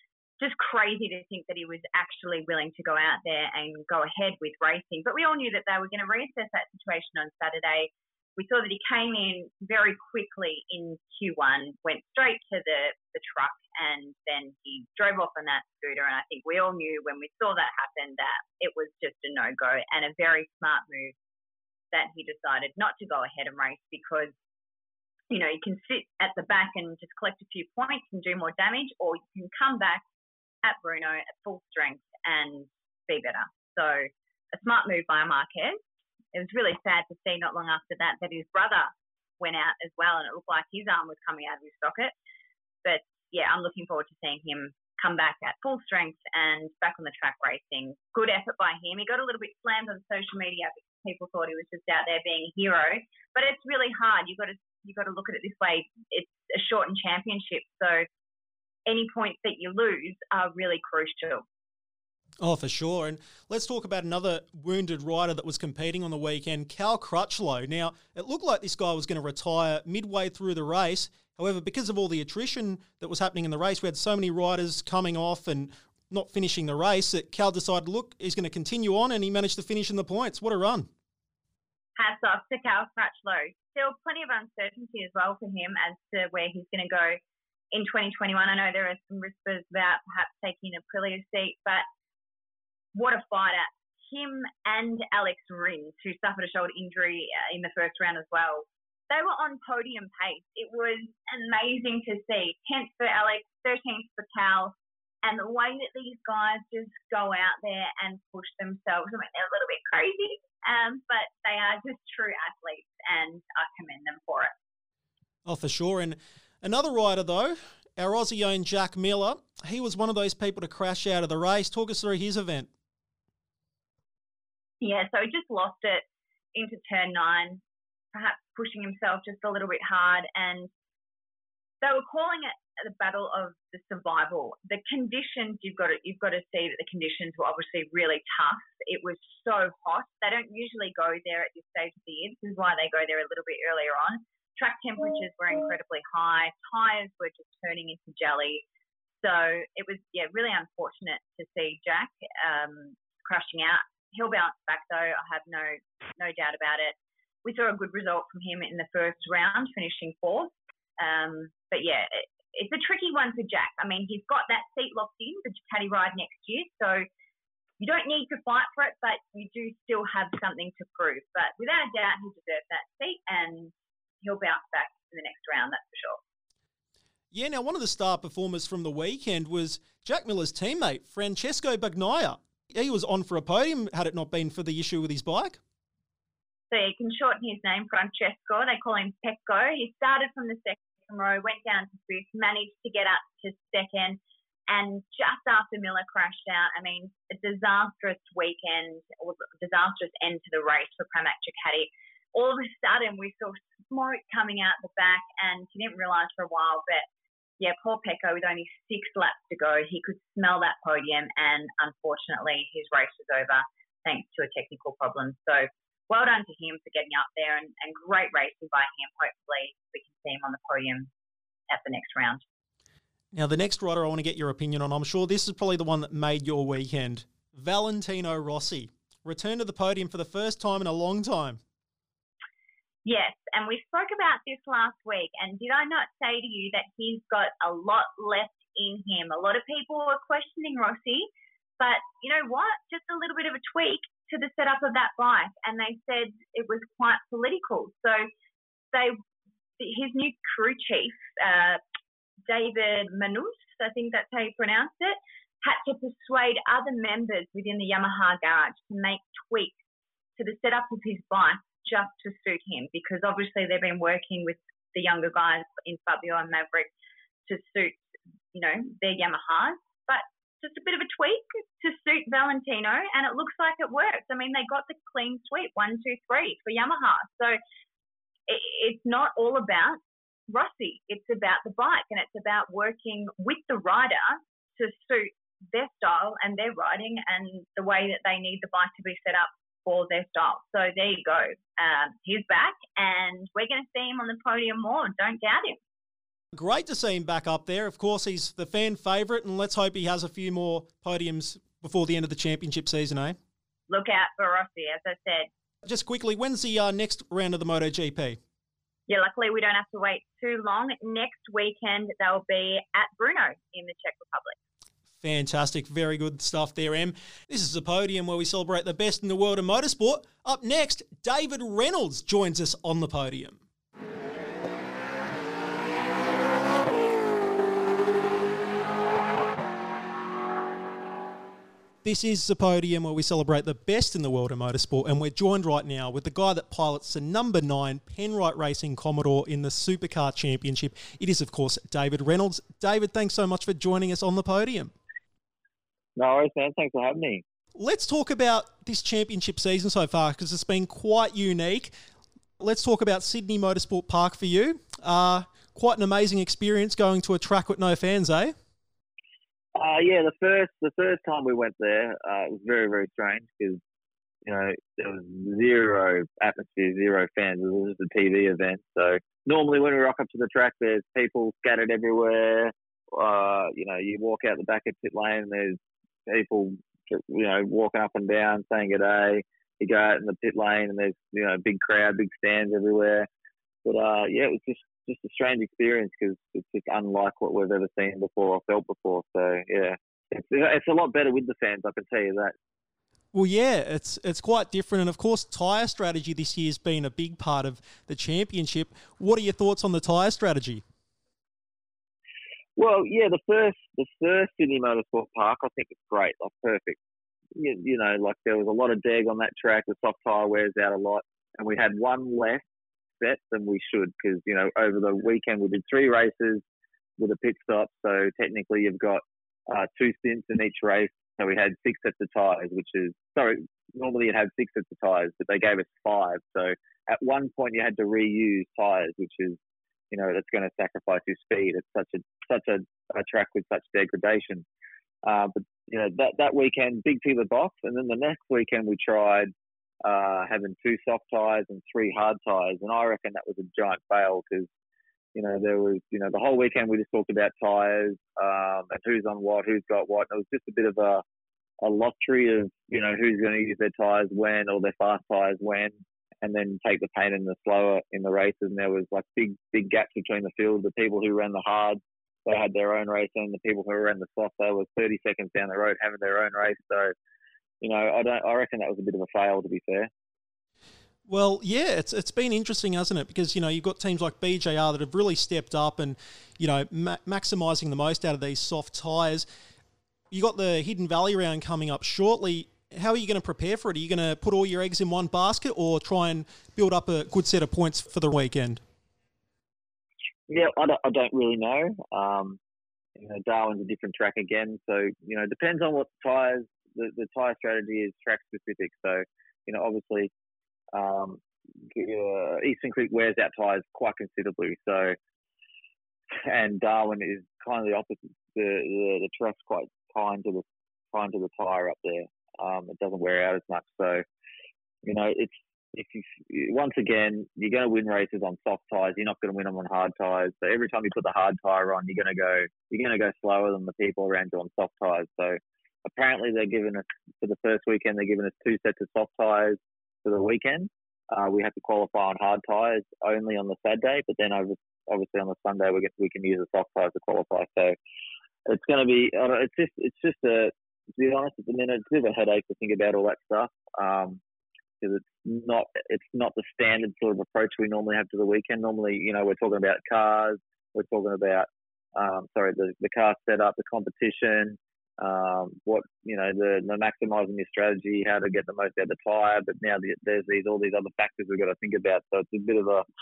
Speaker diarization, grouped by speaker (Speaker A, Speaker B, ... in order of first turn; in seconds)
Speaker A: 0.4-21.1, 21.9-24.3, 25.3-30.0, 30.6-35.8, 36.3-42.1, 42.8-58.1, 58.9-61.4, 82.0-87.2, 87.7-91.8, 92.9-114.5, 124.8-127.6, 128.1-130.7, 131.8-148.6, 149.2-167.1, 167.8-176.2, 186.7-207.1, 207.6-221.1, 221.7-222.4, 233.0-248.3, 249.8-251.8, 252.5-259.7, 260.4-266.9, 267.4-277.6, 278.5-295.8, 303.9-305.5, 309.1-314.6
Speaker B: 62.4-80.9, 115.5-122.7, 177.3-185.6, 223.3-231.6, 296.5-303.4, 305.8-308.4, 315.2-323.6, 332.0-344.9, 347.8-351.9, 352.6-358.5, 393.3-400.8, 471.3-479.4, 480.3-488.8
Speaker C: 346.1-347.4, 359.7-363.8, 364.4-383.3, 383.8-392.5, 402.8-407.0, 407.5-412.6, 413.2-416.6, 417.2-429.6, 430.1-434.6, 435.2-439.5, 440.0-444.7, 445.3-451.2, 451.8-467.1, 467.8-470.1, 490.5-492.6, 493.1-500.3, 500.9-501.4, 501.9-505.1, 506.4-514.2, 515.0-538.0, 538.7-544.4, 545.0-563.0